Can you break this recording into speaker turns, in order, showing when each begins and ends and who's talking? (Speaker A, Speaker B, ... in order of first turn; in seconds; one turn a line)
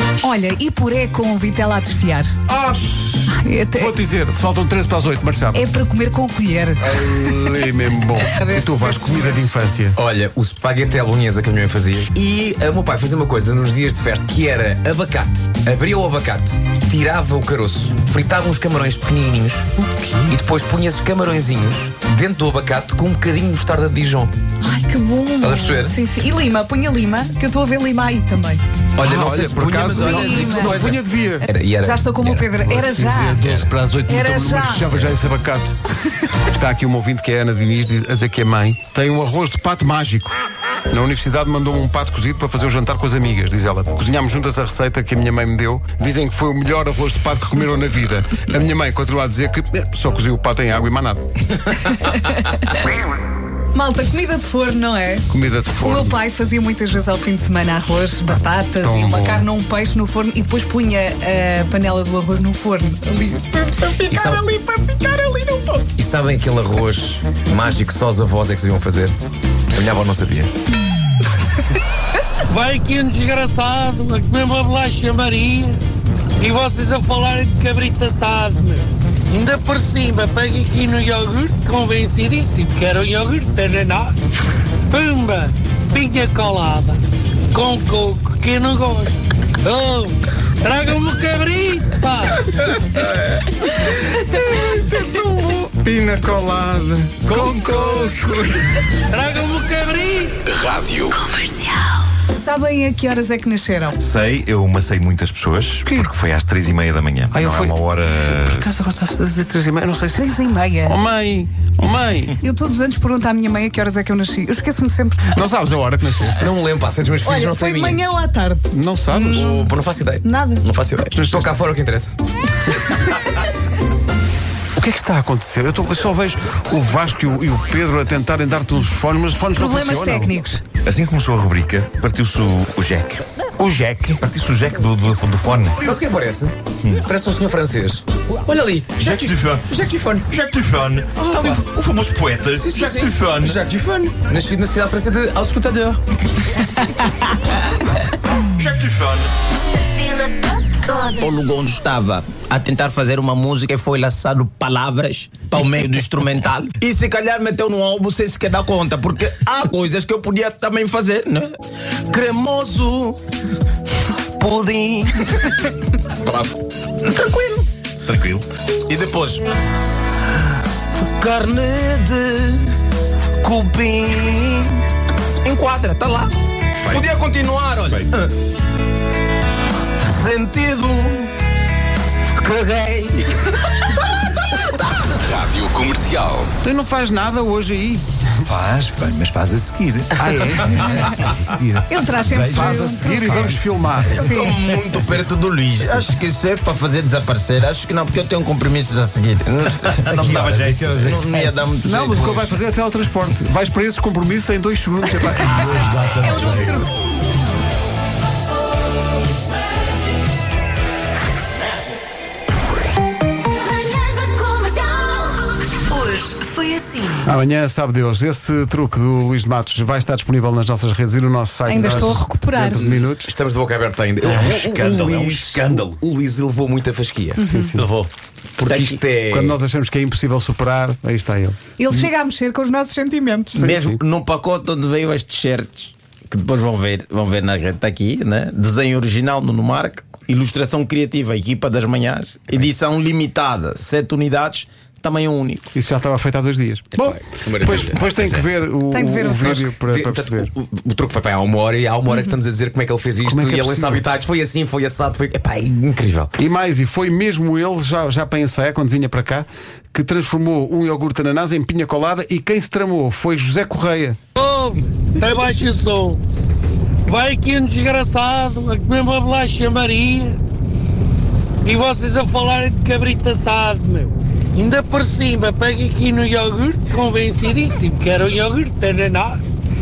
Speaker A: 0.2-2.4
Speaker B: 2.5-5.6
Speaker A: 3.3-4.0
Speaker A: 5.5-7.2
Speaker B: 6.8-10.0
Speaker A: 8.2-9.5
Speaker C: 10.0-19.7
Speaker B: 20.0-20.3
Speaker C: 20.3-24.3
Speaker A: 24.6-28.6
Speaker C: 25.4-26.0
Speaker C: 29.0-32.5
Speaker B: 29.0-31.5
Speaker A: 29.9-30.9
Speaker A: 31.8-33.4
Speaker B: 32.6-35.8
Speaker A: 34.1-34.9
Speaker B: 36.4-40.4
Speaker B: 40.9-51.6
Speaker A: 52.1-52.6
Speaker A: 53.7-55.3
Speaker B: 55.3-56.2
Speaker A: 55.8-65.9
Speaker B: 58.8-59.4
Speaker C: 64.1-64.4
Speaker C: 66.0-69.2
Speaker C: 69.7-70.5
Speaker D: 72.5-75.8
Speaker D: 76.4-84.1
Speaker D: 84.9-87.0
Speaker D: 87.5-92.5
Speaker B: 94.2-98.5
Speaker C: 97.2-98.8
Speaker D: 99.1-100.4
Speaker C: 100.5-101.2
Speaker E: 101.2-101.9
Speaker A: 102.3-104.0
Speaker F: 104.0-108.7
Speaker B: 105.8-106.1
Speaker B: 107.3-107.8
Speaker B: 108.5-110.2
Speaker A: 110.1-111.0
Speaker B: 110.8-112.3
Speaker A: 112.4-115.2
Speaker B: 115.3-116.5
Speaker C: 116.2-118.0
Speaker A: 117.2-120.7
Speaker B: 118.7-119.5
Speaker C: 119.2-122.2
Speaker B: 121.1-121.6
Speaker B: 124.8-130.3
Speaker A: 129.6-130.6
Speaker F: 130.8-136.0
Speaker C: 135.8-140.3
Speaker F: 139.0-139.7
Speaker F: 140.3-143.6
Speaker C: 141.2-141.7
Speaker C: 142.5-146.0
Speaker F: 148.5-149.3
Speaker G: 150.9-161.5
Speaker G: 162.1-163.2
Speaker G: 164.4-165.5
Speaker G: 167.0-167.7
Speaker F: 168.1-168.4
Speaker G: 168.9-169.4
Speaker G: 171.0-172.8
Speaker G: 173.4-174.8
Speaker G: 175.4-176.3
Speaker G: 176.8-178.3
Speaker G: 180.0-181.3
Speaker G: 182.3-183.6
Speaker G: 184.5-185.1
Speaker C: 185.2-186.5
Speaker B: 186.6-188.1
Speaker F: 188.5-190.1
Speaker B: 190.2-191.8
Speaker F: 190.7-191.4
Speaker A: 191.9-194.6
Speaker F: 192.2-193.5
Speaker B: 192.4-194.3
Speaker G: 193.4-202.6
Speaker C: 194.7-196.0
Speaker F: 200.0-201.6
Speaker B: 201.7-206.1
Speaker A: 205.4-206.9
Speaker F: 205.7-206.8
Speaker E: 213.7-217.2
Speaker B: 217.2-223.3
Speaker A: 221.7-222.8
Speaker C: 222.8-227.4
Speaker F: 224.2-226.0
Speaker A: 227.3-227.8
Speaker B: 227.4-227.9
Speaker G: 227.8-228.1
Speaker C: 228.6-229.6
Speaker G: 228.7-229.0
Speaker B: 229.3-232.1
Speaker A: 231.8-233.6
Speaker B: 233.5-234.0
Speaker G: 233.6-245.6
Speaker B: 245.7-250.5
Speaker C: 246.9-248.5
Speaker A: 248.9-249.7
Speaker C: 249.4-256.3
Speaker B: 253.2-254.0
Speaker B: 256.4-264.2
Speaker D: 264.4-266.2
Speaker D: 267.1-270.4
Speaker D: 271.6-279.4